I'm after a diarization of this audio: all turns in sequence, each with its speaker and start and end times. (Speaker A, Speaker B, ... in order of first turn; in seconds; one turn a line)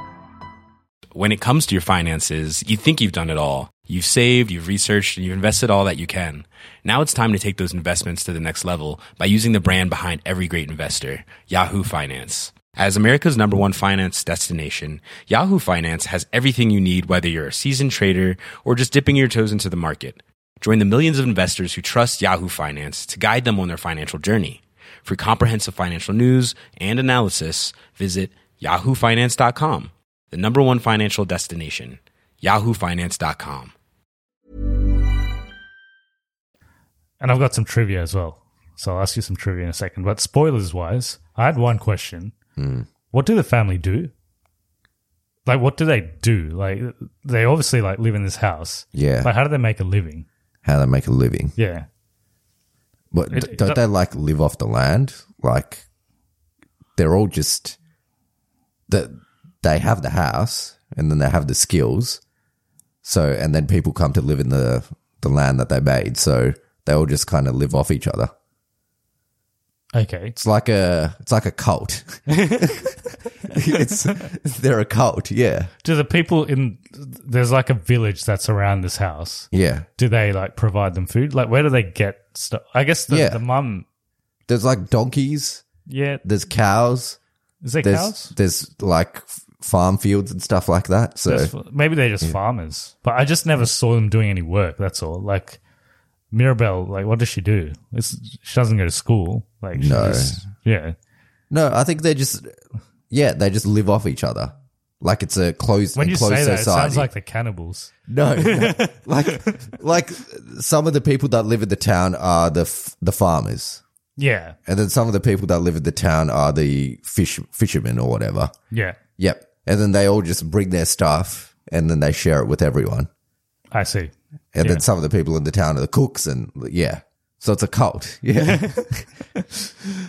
Speaker A: 1.1-33.7
Speaker B: 37.2-42.3
Speaker C: 42.6-42.9
Speaker B: 43.1-44.1
Speaker B: 45.5-50.3
Speaker C: 48.9-49.3
Speaker C: 50.6-51.5
Speaker B: 51.6-51.9
Speaker C: 53.1-55.8
Speaker B: 53.3-53.8
Speaker C: 57.0-57.8
Speaker C: 58.9-62.2
Speaker C: 63.0-68.3
Speaker B: 69.9-70.3
Speaker C: 70.3-72.8
Speaker B: 72.3-72.7
Speaker C: 73.5-75.7
Speaker B: 75.8-83.8
Speaker C: 79.5-79.8
Speaker C: 83.1-83.4
Speaker C: 84.5-85.6
Speaker B: 85.9-86.2
Speaker C: 86.2-87.2
Speaker B: 87.6-88.3
Speaker C: 87.8-91.5
Speaker B: 91.2-95.6
Speaker B: 96.3-101.0
Speaker C: 99.7-100.4
Speaker C: 101.5-102.6
Speaker C: 103.1-107.1
Speaker B: 105.9-109.6
Speaker C: 108.1-113.8
Speaker B: 114.2-114.6
Speaker C: 114.7-118.5
Speaker B: 118.7-119.0
Speaker C: 119.2-123.1
Speaker B: 123.7-124.8
Speaker C: 124.5-129.1
Speaker B: 128.5-128.9
Speaker B: 129.4-129.7